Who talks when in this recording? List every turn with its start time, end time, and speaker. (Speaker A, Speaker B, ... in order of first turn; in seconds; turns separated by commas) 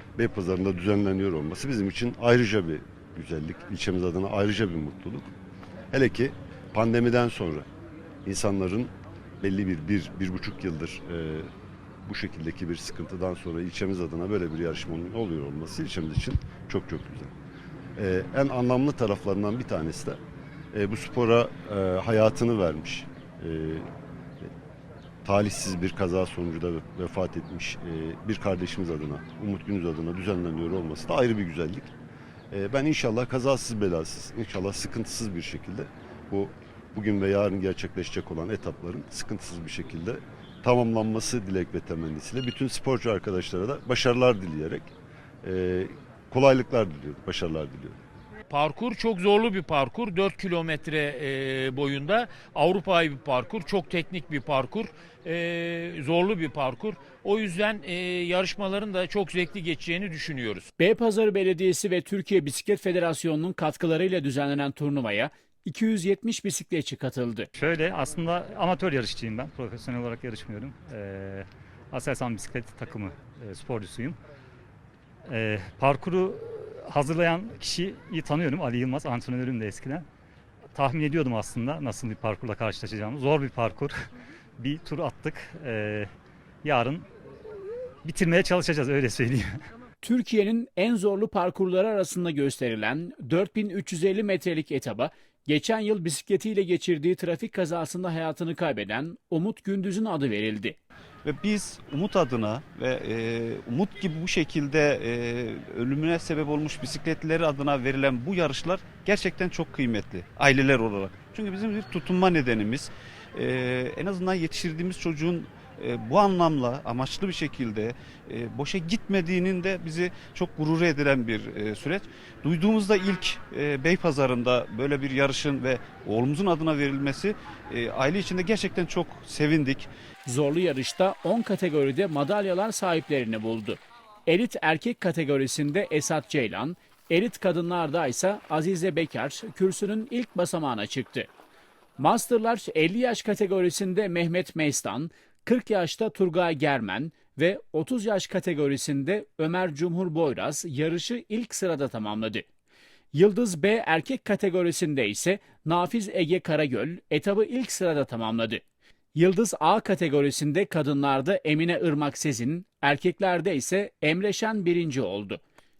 Speaker A: 0.1-5.3, Speaker A: 5.9-7.7, Speaker A: 8.2-11.5, Speaker A: 12.1-17.3, Speaker A: 18.0-20.2, Speaker A: 20.7-23.9, Speaker A: 25.2-31.9, Speaker A: 32.5-44.9, Speaker A: 45.4-48.0, Speaker B: 48.5-60.7, Speaker C: 60.8-67.5, Speaker D: 67.6-74.2, Speaker D: 75.3-80.0, Speaker D: 80.7-83.9, Speaker D: 84.6-86.1, Speaker D: 86.6-87.1, Speaker D: 88.0-89.5, Speaker C: 90.0-100.8, Speaker E: 101.2-129.9, Speaker C: 130.2-141.3, Speaker C: 142.0-152.4, Speaker C: 153.1-158.6, Speaker C: 159.2-165.4